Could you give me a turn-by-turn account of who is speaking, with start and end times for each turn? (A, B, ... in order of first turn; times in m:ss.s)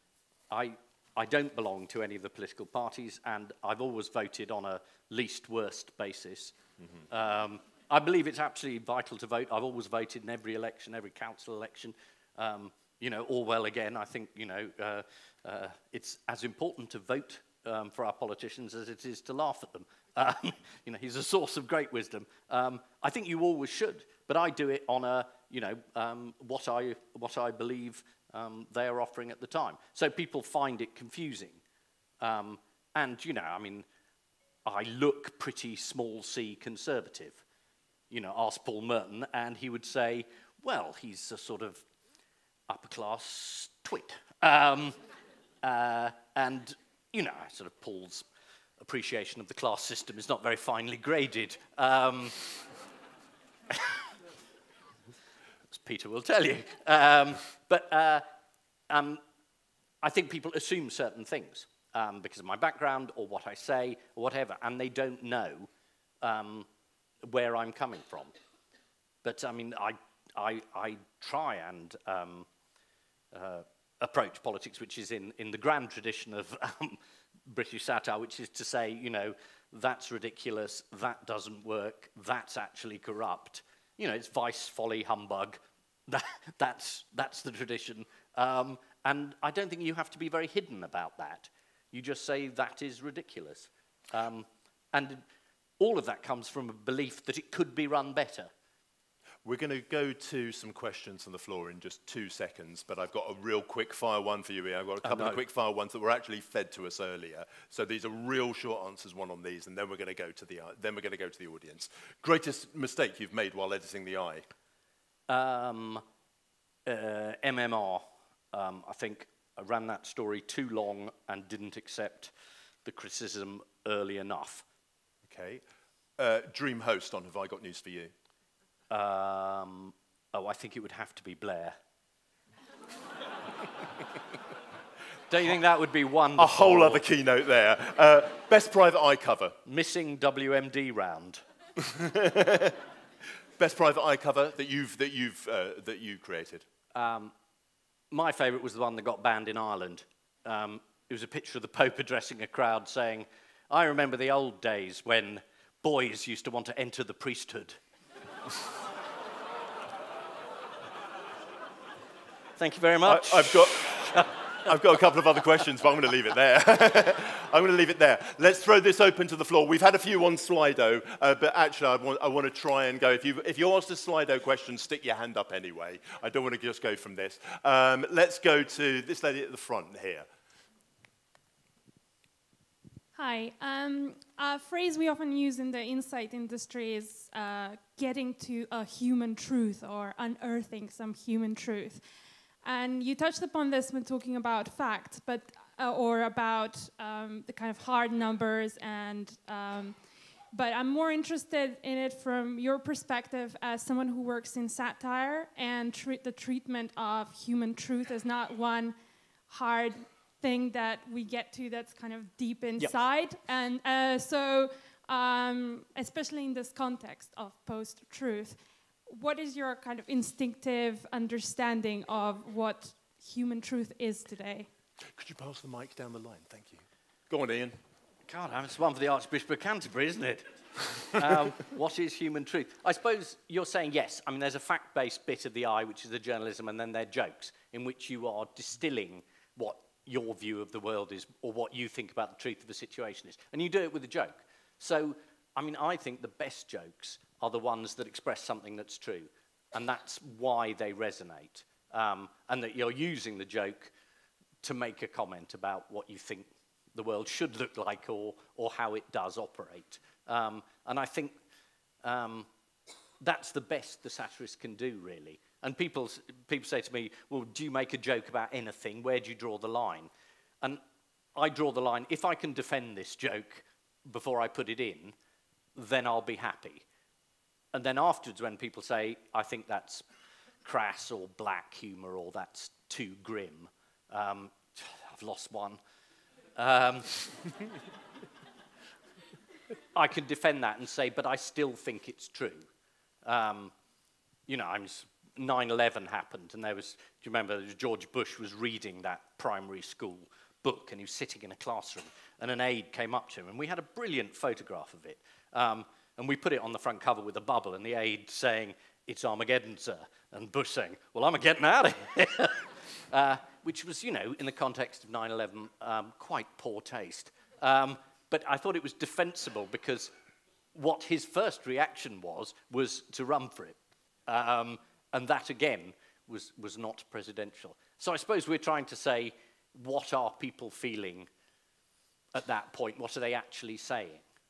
0:00.5-0:06.5 A
0:07.1-0:31.6 A
0:32.2-0:33.8 A
0:34.6-0:37.4 A
0:38.1-0:41.8 A
0:42.7-0:45.0 A
0:45.6-0:48.2 A
0:48.8-0:52.5 A
0:53.7-0:54.0 A
0:55.7-0:58.2 A
0:58.9-0:59.2 A
1:00.0-1:05.7 A
1:06.2-1:06.7 A
1:07.2-1:08.3 A
1:09.2-1:12.5 A
1:13.3-1:35.2 A
1:35.8-1:38.5 A
1:39.4-1:54.4 B
1:45.0-1:45.4 A
1:55.3-1:56.0 A
1:56.8-2:02.3 A
2:02.8-2:04.6 A
2:05.2-2:05.6 B
2:06.2-2:08.1 B
2:08.9-2:11.8 A
2:15.3-2:17.0 A
2:16.4-2:19.6 B
2:19.6-2:21.4 A
2:21.8-2:22.8 B
2:23.6-2:26.6 B
2:26.9-2:27.3 A
2:28.1-2:37.8 A
2:42.6-2:44.8 A
2:43.0-3:00.3 B
3:03.1-3:12.0 C
3:12.6-3:20.0 C
3:20.5-3:29.0 C
3:29.5-3:44.7 C
3:45.1-3:47.8 B
3:48.3-3:50.5 A
3:51.1-4:13.9 A
4:14.6-4:21.4 A
4:22.0-4:22.5 A
4:23.2-4:30.1 A
4:31.3-4:35.1 A
4:35.8-4:36.8 A
4:37.7-4:40.0 A
4:40.6-4:45.8 A
4:46.6-4:47.3 A
4:49.9-4:52.7 A
4:53.2-4:53.7 A
4:54.5-5:20.1 A
5:20.7-5:31.3 A
5:32.3-5:34.2 A